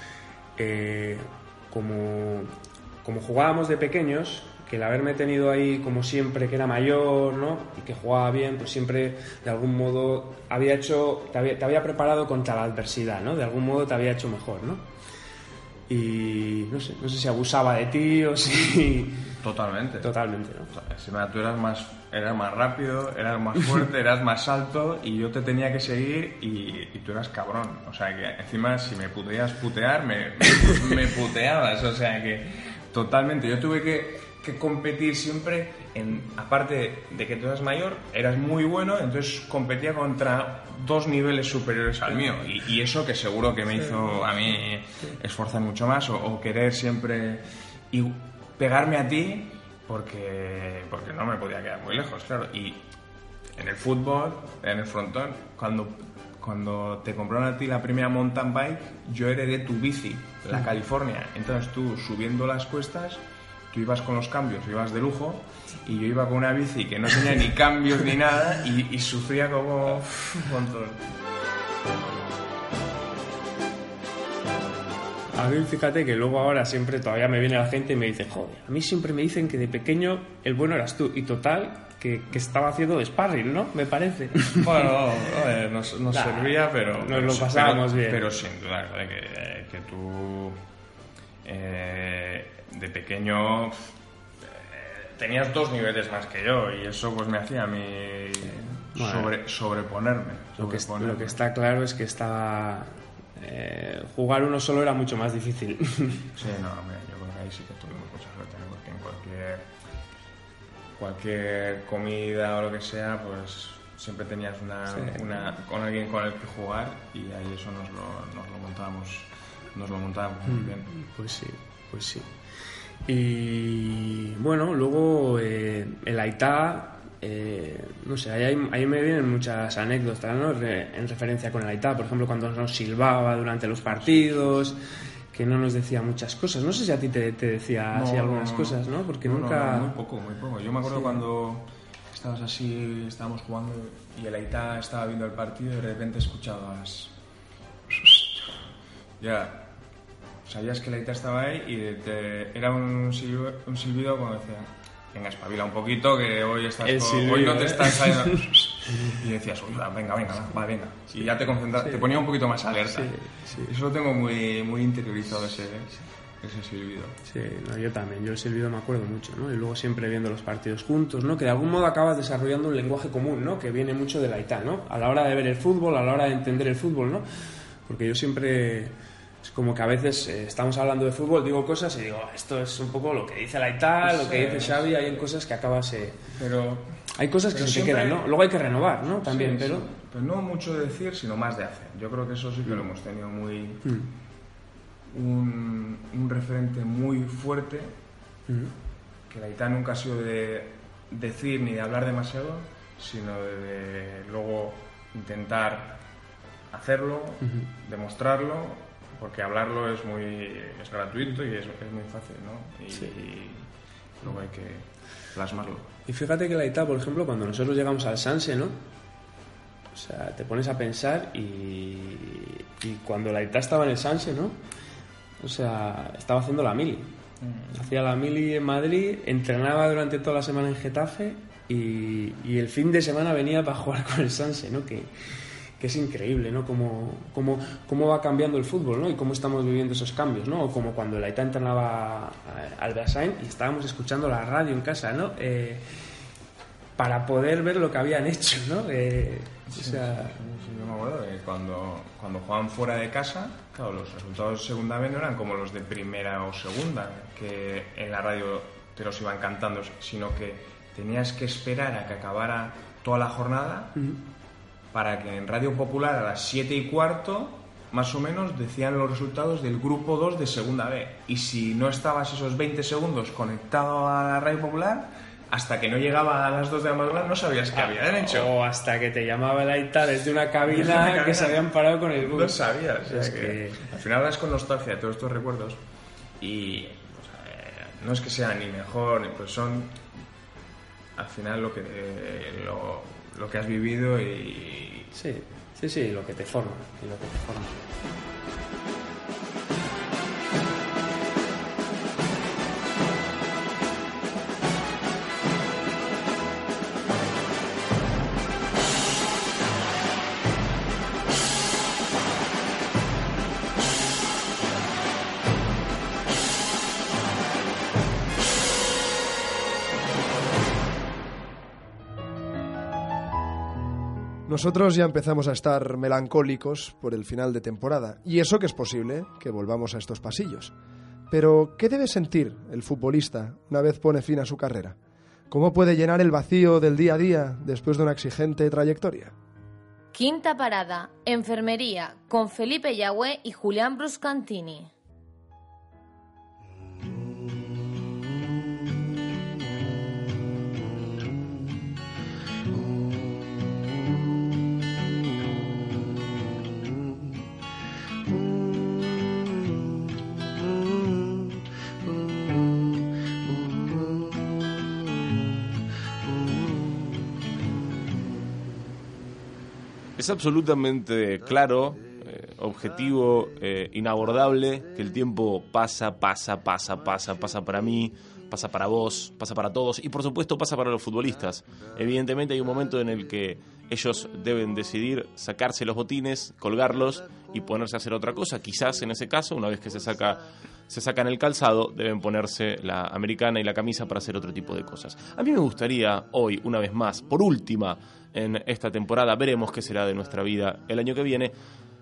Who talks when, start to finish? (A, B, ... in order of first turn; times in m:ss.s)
0:00.6-0:14.8 A
0:15.9-0:19.3 A
0:19.4-0:20.1 B
0:20.0-0:20.7 A
0:20.7-0:52.8 B
0:42.1-0:42.4 A
0:43.7-0:45.1 A
0:53.6-1:11.0 B
1:15.3-1:24.9 A
1:24.6-1:30.6 B
1:26.1-1:28.3 A
1:31.4-1:41.4 B
1:38.9-1:39.3 A
1:40.6-1:46.3 A
1:46.4-1:49.6 B
1:51.0-2:00.9 B
1:54.9-1:55.2 A
2:00.5-2:02.3 A
2:03.0-2:14.8 A
2:13.9-2:14.5 B
2:15.3-2:19.9 A
2:17.9-2:27.1 B
2:29.2-2:29.7 B
2:30.4-2:47.1 B
2:36.8-2:39.1 A
2:41.1-2:42.1 A
2:42.9-2:43.7 A
2:47.2-3:06.2 A
3:04.0-3:05.2 B
3:06.4-3:06.9 B
3:07.1-3:09.9 A
3:07.5-3:08.2 B
3:09.2-3:13.8 B
3:13.8-3:14.1 A
3:15.1-3:17.9 B
3:19.3-3:26.0 B
3:26.7-3:33.6 B
3:27.4-3:27.7 A
3:34.2-3:35.9 B
3:36.0-3:38.8 A
3:39.9-3:44.6 A
3:45.4-3:47.1 A
3:47.4-3:47.9 B
3:47.7-4:05.9 A
4:07.0-4:10.4 A
4:09.7-4:23.9 B
4:24.9-4:38.5 B
4:37.7-4:43.9 A
4:40.7-4:45.8 B
4:46.4-4:50.0 B
4:51.2-4:55.1 B
4:55.1-4:57.8 A
5:24.5-5:30.7 C
5:31.3-5:35.0 C
5:35.5-5:39.3 C
5:40.1-5:44.9 D
6:10.2-6:41.5 E